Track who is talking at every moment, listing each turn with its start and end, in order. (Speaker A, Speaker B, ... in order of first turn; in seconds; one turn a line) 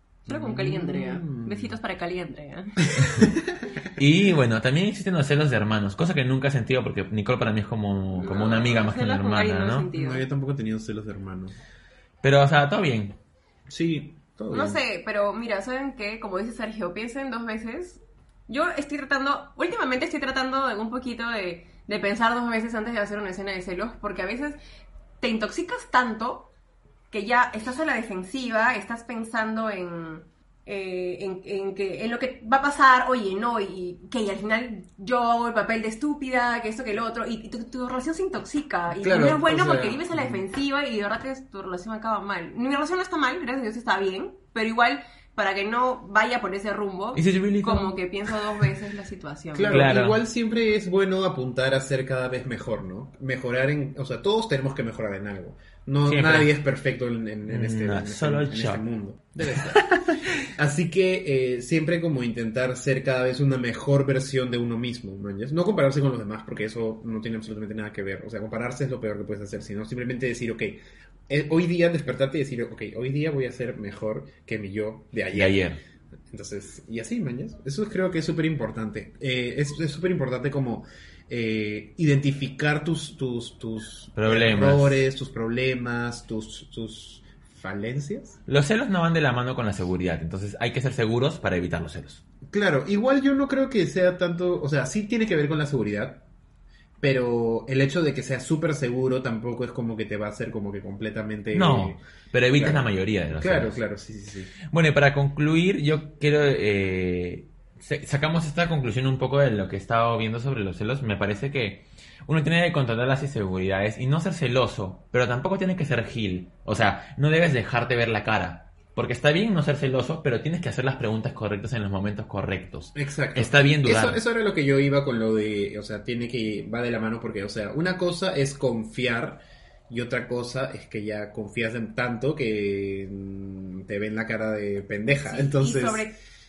Speaker A: 0.3-1.8
Speaker B: 0.3-2.9
Speaker A: 3.0-3.7
Speaker C: 4.0-9.9
Speaker B: 8.2-10.2
Speaker A: 9.9-11.5
Speaker C: 12.2-13.2
Speaker A: 13.7-14.8
Speaker B: 14.5-24.6
Speaker B: 25.2-26.5
Speaker B: 27.1-49.9
Speaker A: 39.0-40.4
Speaker C: 47.1-48.3
Speaker A: 49.5-59.8
Speaker C: 49.7-50.2
Speaker C: 56.0-56.5
Speaker C: 57.5-58.8
Speaker C: 59.5-60.4
Speaker A: 60.5-75.6
Speaker C: 75.3-75.8
Speaker A: 76.3-88.4
Speaker C: 84.1-85.0
Speaker C: 88.5-92.2
Speaker A: 92.5-96.2
Speaker A: 97.0-102.0
Speaker C: 101.5-103.8
Speaker A: 102.5-102.9
Speaker A: 103.4-104.5
Speaker C: 104.7-124.2
Speaker A: 122.9-136.1
Speaker B: 135.2-136.1